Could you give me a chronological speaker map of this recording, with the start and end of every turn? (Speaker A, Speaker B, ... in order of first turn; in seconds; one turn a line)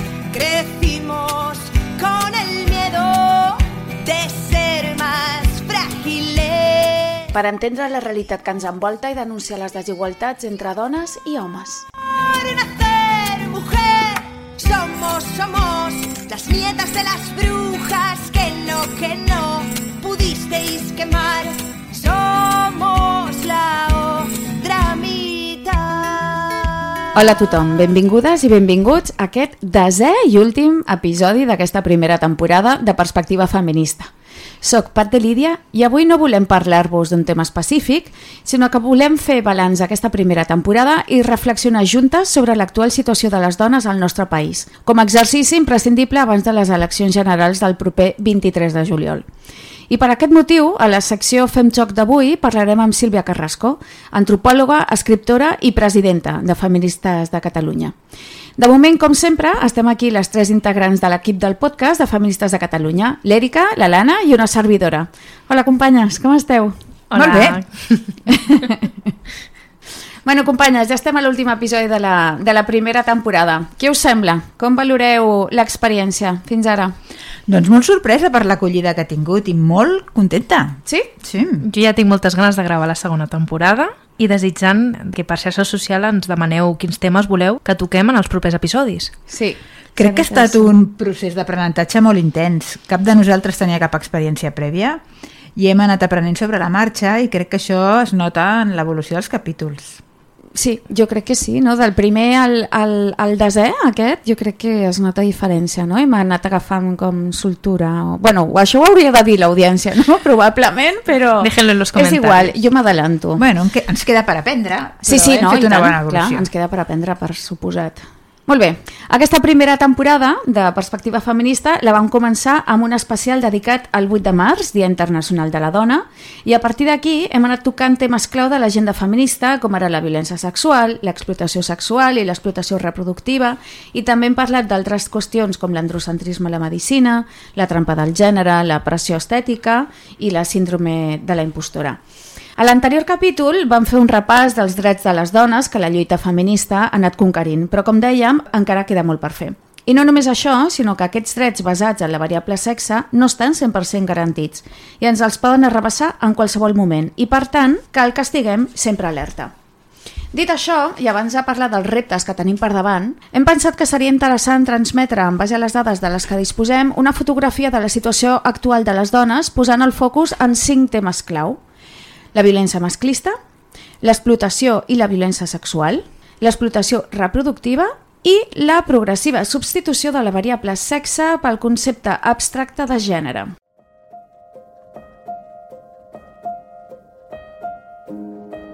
Speaker A: 0.3-7.2
Speaker B: 7.3-11.8
Speaker A: 12.0-26.7
Speaker B: 27.1-34.1
Speaker B: 34.6-49.3
Speaker B: 49.9-58.0
Speaker B: 58.6-66.8
Speaker C: 67.1-68.2
Speaker D: 67.2-67.6
Speaker B: 68.3-68.9
Speaker B: 70.2-77.0
Speaker D: 77.5-81.7
Speaker B: 80.8-81.1
Speaker C: 81.6-89.2
Speaker B: 89.3-90.8
Speaker D: 90.0-95.0
Speaker D: 95.6-100.0
Speaker B: 100.6-113.4
Speaker C: 111.4-112.5
Speaker D: 113.4-116.5
Speaker B: 115.0-142.0
Speaker B: 142.6-159.5
Speaker B: 160.3-171.6
Speaker B: 172.3-173.4
Speaker B: 174.0-183.5